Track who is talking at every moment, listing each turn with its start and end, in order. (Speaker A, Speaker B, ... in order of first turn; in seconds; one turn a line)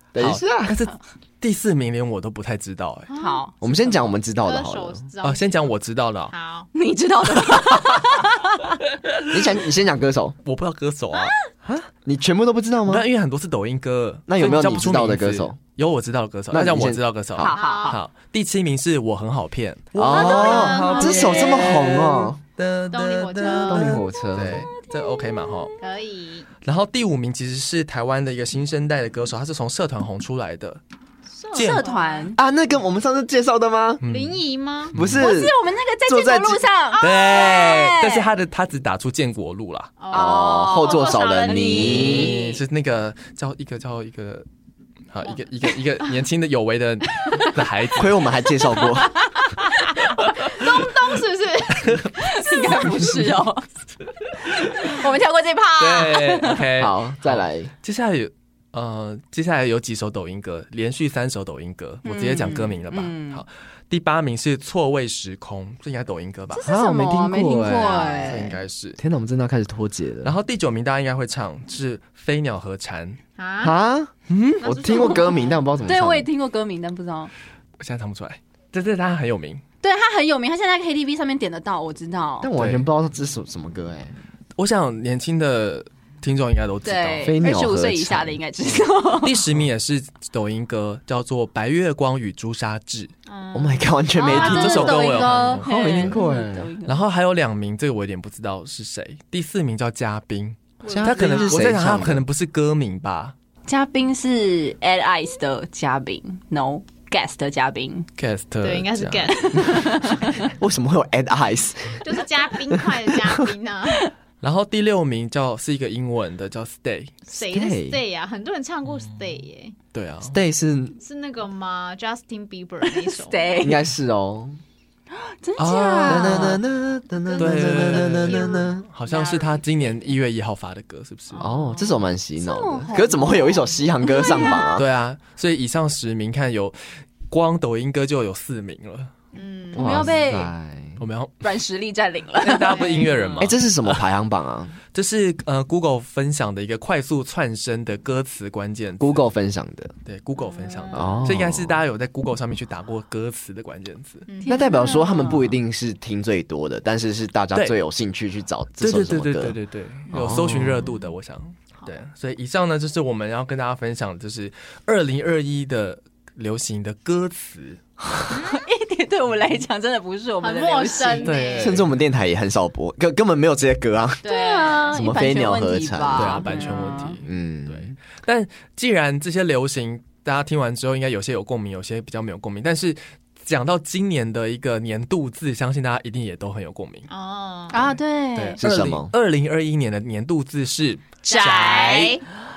Speaker A: 0.1-0.8
Speaker B: 0.2-3.1
Speaker C: 3.1-3.4
Speaker D: 3.1-3.5
Speaker A: 3.6-5.0
Speaker C: 4.3-5.7
Speaker B: 5.2-6.3
Speaker C: 6.3-6.7
Speaker D: 6.7-8.7
Speaker B: 7.4-8.0
Speaker B: 9.1-9.4
Speaker A: 9.3-10.3
Speaker B: 10.4-11.3
Speaker A: 11.6-13.1
Speaker B: 12.8-25.7
Speaker A: 14.3-15.6
Speaker A: 16.5-17.5
Speaker D: 17.4-18.0
Speaker C: 17.5-18.0
Speaker A: 19.9-22.4
Speaker C: 20.1-22.1
Speaker D: 20.1-21.5
Speaker C: 22.9-24.0
Speaker A: 23.6-24.7
Speaker D: 24.7-25.8
Speaker C: 25.8-26.5
Speaker B: 26.6-30.8
Speaker C: 31.3-32.3
Speaker D: 31.5-32.4
Speaker B: 31.5-31.8
Speaker A: 32.3-34.0
Speaker B: 34.0-34.4
Speaker C: 34.1-34.9
Speaker B: 34.9-35.3
Speaker A: 34.9-35.5
Speaker D: 35.2-38.3
Speaker A: 36.1-36.6
Speaker C: 36.9-37.7
Speaker B: 37.0-40.0
Speaker C: 40.0-42.5
Speaker D: 40.1-42.4
Speaker A: 40.1-42.5
Speaker B: 41.8-44.5
Speaker B: 45.1-48.3
Speaker A: 48.0-49.1
Speaker C: 49.6-52.8
Speaker B: 51.8-52.1
Speaker D: 52.2-53.6
Speaker D: 54.6-56.6
Speaker B: 55.8-66.6
Speaker A: 56.7-57.7
Speaker D: 62.0-63.4
Speaker D: 66.5-68.5
Speaker A: 66.6-70.3
Speaker C: 67.8-68.3
Speaker B: 68.2-69.0
Speaker B: 70.2-73.2
Speaker C: 73.4-73.7
Speaker A: 73.6-76.3
Speaker B: 74.3-74.7
Speaker C: 74.6-75.6
Speaker D: 75.8-77.3
Speaker B: 77.8-79.6
Speaker D: 79.8-82.5
Speaker A: 82.4-84.1
Speaker B: 82.6-82.8
Speaker B: 84.6-87.4
Speaker D: 86.8-89.4
Speaker A: 87.2-88.3
Speaker B: 89.1-93.1
Speaker C: 93.3-94.5
Speaker A: 93.5-96.7
Speaker D: 94.2-97.0
Speaker B: 94.3-96.2
Speaker B: 96.8-103.3
Speaker C: 100.8-101.6
Speaker A: 100.9-102.2
Speaker D: 103.7-108.1
Speaker B: 108.2-109.8
Speaker C: 108.6-110.1
Speaker D: 109.5-110.5
Speaker A: 110.6-112.2
Speaker C: 112.0-114.1
Speaker A: 112.8-113.5
Speaker B: 114.4-117.2
Speaker C: 117.3-119.7
Speaker A: 117.5-118.0
Speaker B: 119.9-120.4
Speaker A: 120.3-120.9
Speaker C: 121.0-123.6
Speaker D: 122.8-123.8
Speaker A: 123.6-124.6
Speaker D: 125.2-126.6
Speaker B: 125.6-126.6
Speaker A: 126.0-128.8
Speaker B: 127.4-131.5
Speaker C: 128.0-128.6
Speaker D: 129.1-129.5
Speaker C: 131.3-132.1
Speaker A: 131.4-134.8
Speaker D: 132.4-134.8
Speaker B: 134.7-136.8
Speaker B: 137.3-139.1
Speaker C: 139.3-139.9
Speaker A: 139.7-141.0
Speaker D: 139.8-140.5
Speaker B: 141.0-141.4
Speaker D: 141.4-143.1
Speaker B: 142.4-144.0
Speaker C: 142.6-143.5
Speaker A: 143.4-144.8
Speaker B: 144.9-149.2
Speaker A: 149.0-149.9
Speaker B: 150.0-154.3
Speaker C: 150.4-151.3
Speaker A: 150.9-151.8
Speaker C: 154.3-155.1
Speaker A: 154.4-159.6
Speaker D: 154.4-155.5
Speaker B: 158.8-167.8
Speaker A: 160.1-160.9
Speaker C: 168.3-168.6
Speaker D: 168.5-171.3
Speaker C: 170.4-171.8
Speaker B: 171.2-171.9
Speaker A: 171.6-174.2
Speaker C: 174.2-175.0
Speaker D: 174.2-177.2
Speaker A: 174.8-176.5
Speaker B: 176.2-187.1
Speaker A: 177.2-177.9
Speaker C: 187.1-187.8
Speaker D: 187.7-188.6
Speaker B: 188.3-192.2
Speaker A: 188.6-189.1
Speaker C: 191.3-192.2